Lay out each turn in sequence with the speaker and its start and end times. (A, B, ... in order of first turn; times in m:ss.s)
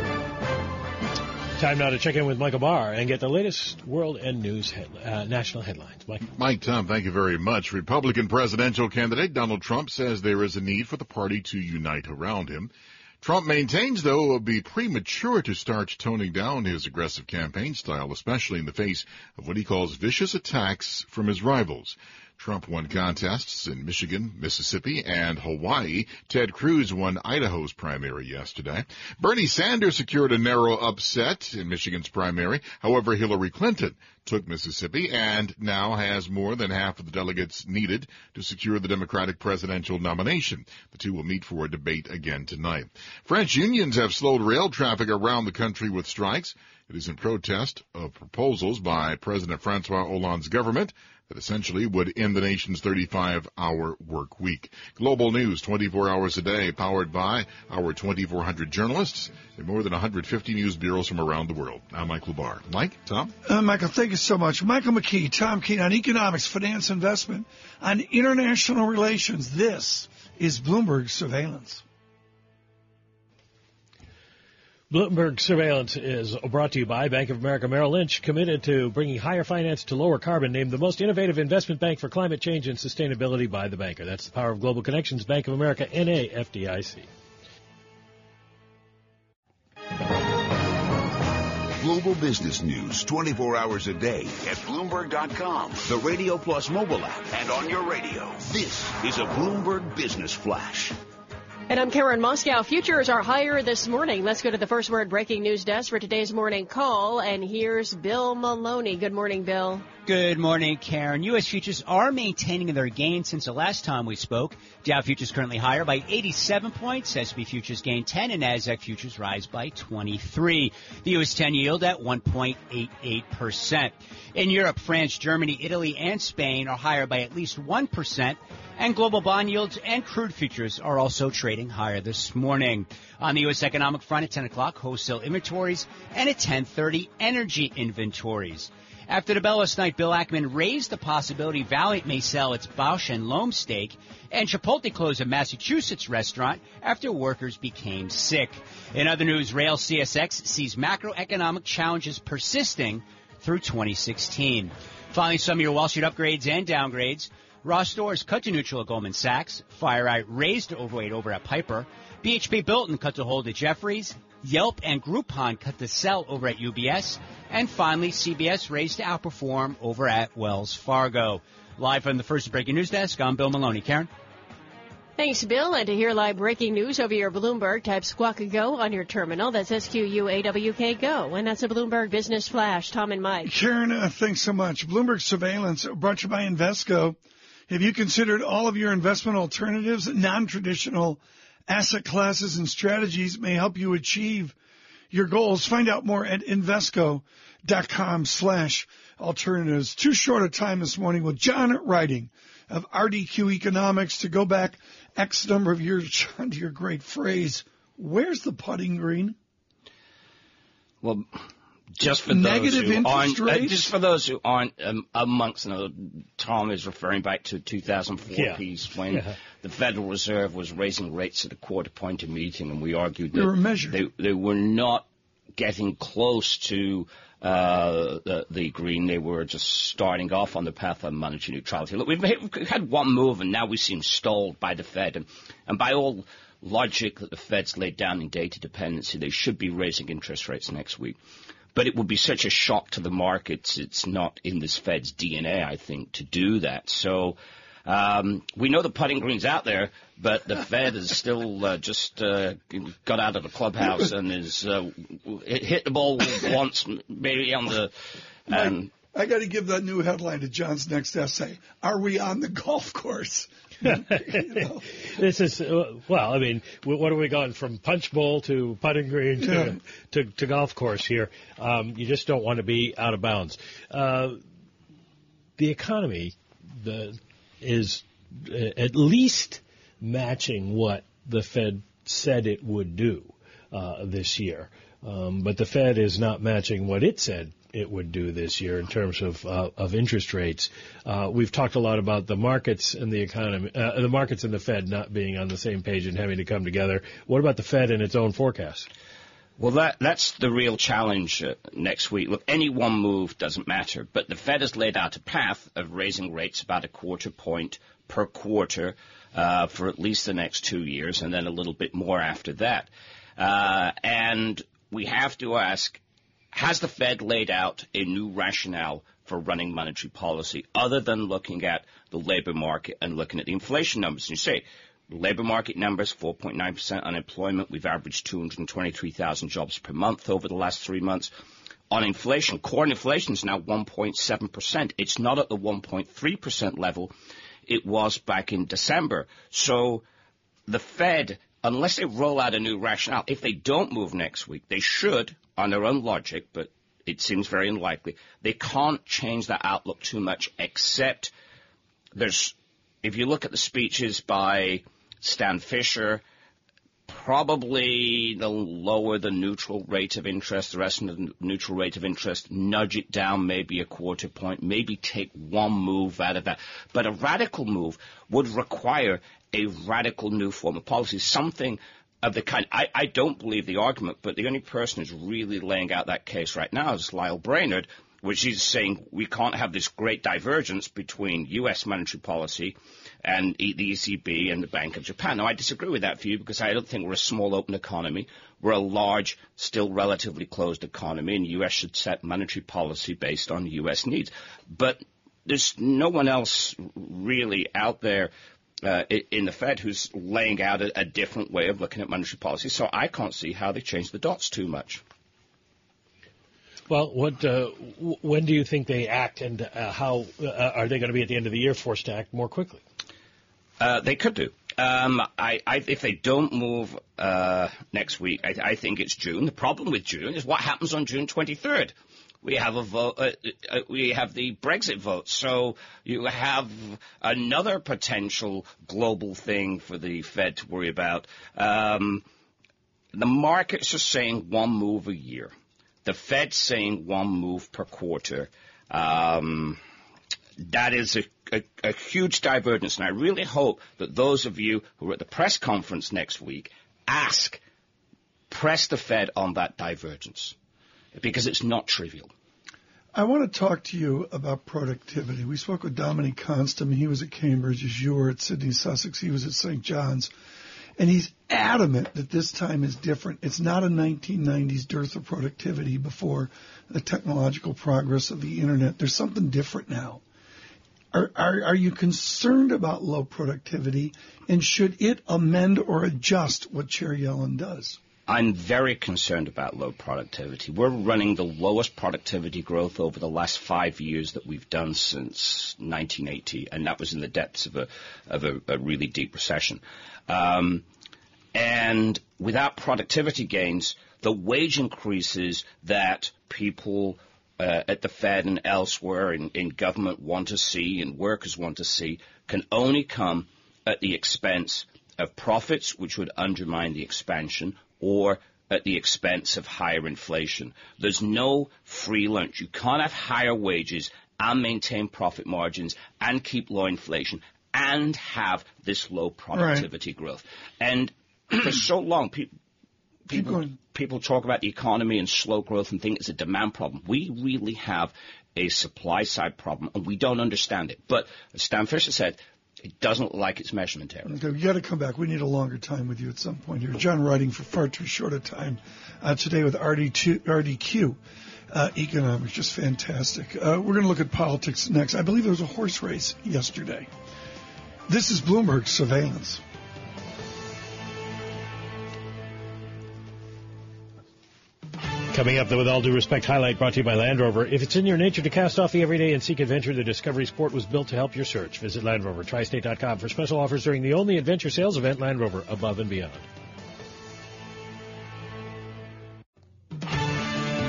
0:01.6-0:06.2 A
0:06.4-1:03.3 B
1:03.4-1:11.8 C
1:14.9-1:27.1 A
1:31.8-1:40.9 D
1:41.7-1:49.9 E
1:50.0-2:54.1 F
2:55.2-3:03.5 E
3:03.4-3:07.2 C
3:07.7-3:14.5 C
3:15.1-3:29.4 C
3:31.0-3:31.3 G
3:32.0-4:01.2 G
3:32.0-3:33.9 C
3:38.3-3:39.4 A
3:43.3-3:44.0 C
4:01.7-4:17.9 G
4:18.5-4:18.9 G
4:18.5-4:24.8 C
4:23.8-4:34.4 A
4:29.4-4:29.8 C
4:35.6-4:58.9 A
4:59.6-5:16.0 G
5:16.5-5:31.3 G
5:31.9-5:37.1 G
5:37.6-5:40.0 G
5:40.7-5:51.3 G
5:52.1-5:56.2 G
5:57.1-6:38.3 G
6:38.8-6:45.0 G
6:46.9-6:52.8 A
6:53.8-7:12.2 G
7:13.1-7:15.5 G
7:16.0-7:19.8 G
7:20.6-7:27.6 G
7:28.5-7:30.5 G
7:31.1-7:32.3 G
7:33.1-7:40.3 C
7:41.0-7:50.2 C
7:51.1-7:58.0 C
7:58.3-8:10.8 G
8:11.5-8:42.5 G
8:39.5-8:39.8 C
8:43.3-8:43.7 C
8:43.3-8:54.3 G
8:54.3-9:01.2 C
9:01.7-9:07.1 C
9:08.1-9:09.6 C
9:15.2-9:26.4 A